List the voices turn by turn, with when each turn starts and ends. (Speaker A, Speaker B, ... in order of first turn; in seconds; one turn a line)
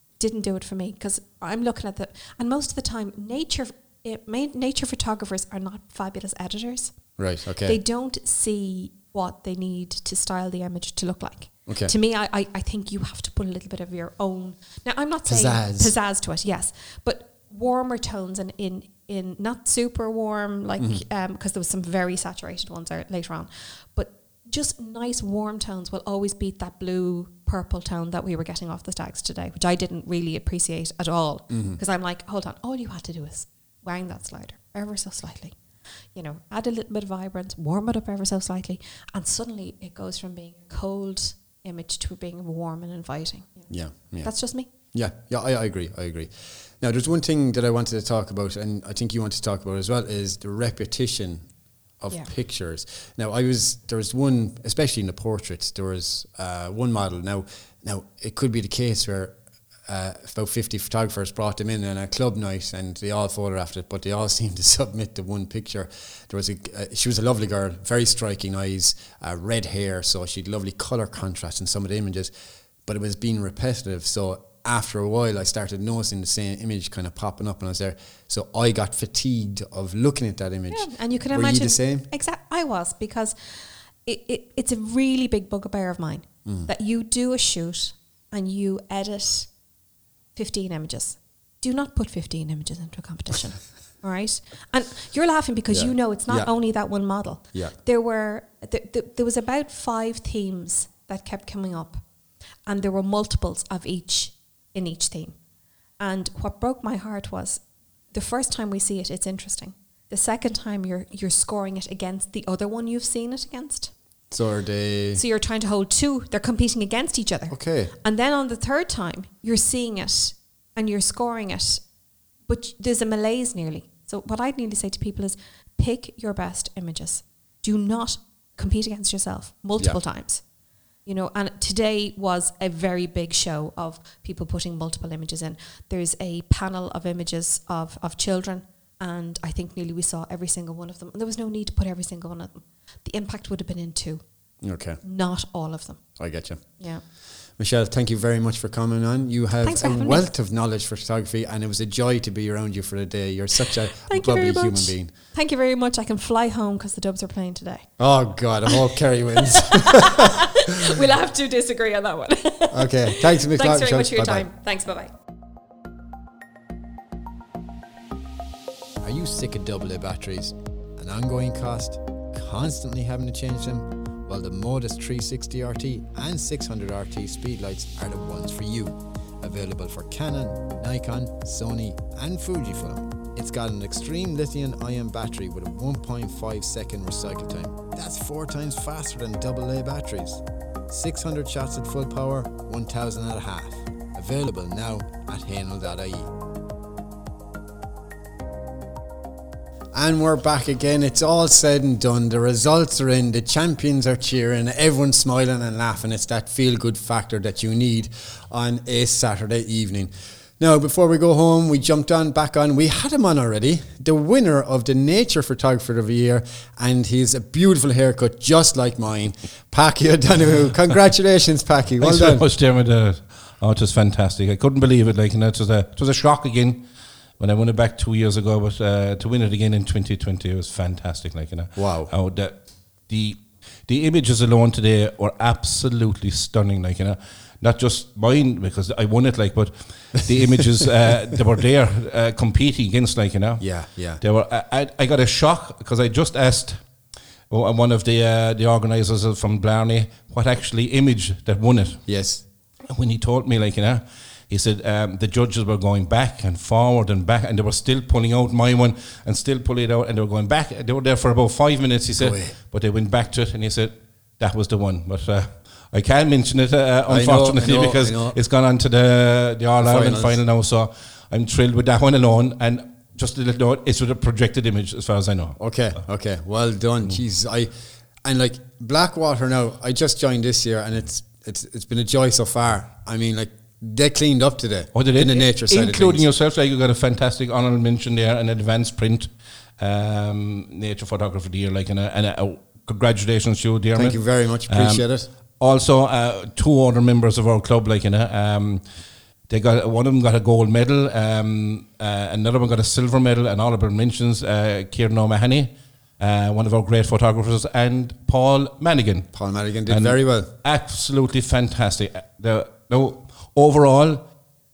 Speaker A: 0.2-7.0
Speaker B: 7.2-7.8
Speaker A: 7.6-35.6
Speaker B: 11.7-11.9
Speaker B: 15.2-15.9
Speaker B: 20.8-21.0
Speaker B: 31.5-31.8
Speaker A: 36.1-44.7
Speaker B: 43.7-51.5
Speaker B: 52.0-59.4
Speaker B: 59.9-72.3
Speaker B: 72.8-82.1
Speaker A: 80.7-83.4
Speaker A: 84.0-89.5
Speaker B: 86.5-86.7
Speaker A: 90.3-102.0
Speaker B: 95.7-96.5
Speaker A: 102.7-105.4
Speaker A: 106.0-113.9
Speaker B: 114.3-115.2
Speaker A: 115.2-121.8
Speaker B: 117.5-117.9
Speaker A: 122.5-130.4
Speaker A: 131.0-144.2
Speaker B: 144.6-145.0
Speaker A: 145.0-147.0
Speaker B: 146.2-146.8
Speaker B: 147.6-155.1
Speaker A: 149.6-150.3
Speaker A: 153.7-157.9
Speaker B: 158.0-160.2
Speaker A: 159.5-165.1
Speaker B: 162.7-164.5
Speaker B: 169.0-196.3
Speaker B: 199.9-222.4
Speaker C: 222.0-246.9
Speaker B: 231.8-232.1
Speaker B: 243.6-244.2
Speaker C: 247.5-252.0
Speaker B: 252.1-252.4
Speaker C: 252.8-275.6
Speaker B: 262.1-262.6
Speaker B: 267.1-268.4
Speaker B: 269.8-270.4
Speaker B: 275.6-277.7
Speaker B: 278.2-286.3
Speaker C: 284.9-309.3
Speaker B: 293.9-295.3
Speaker B: 309.3-310.5
Speaker C: 309.9-314.3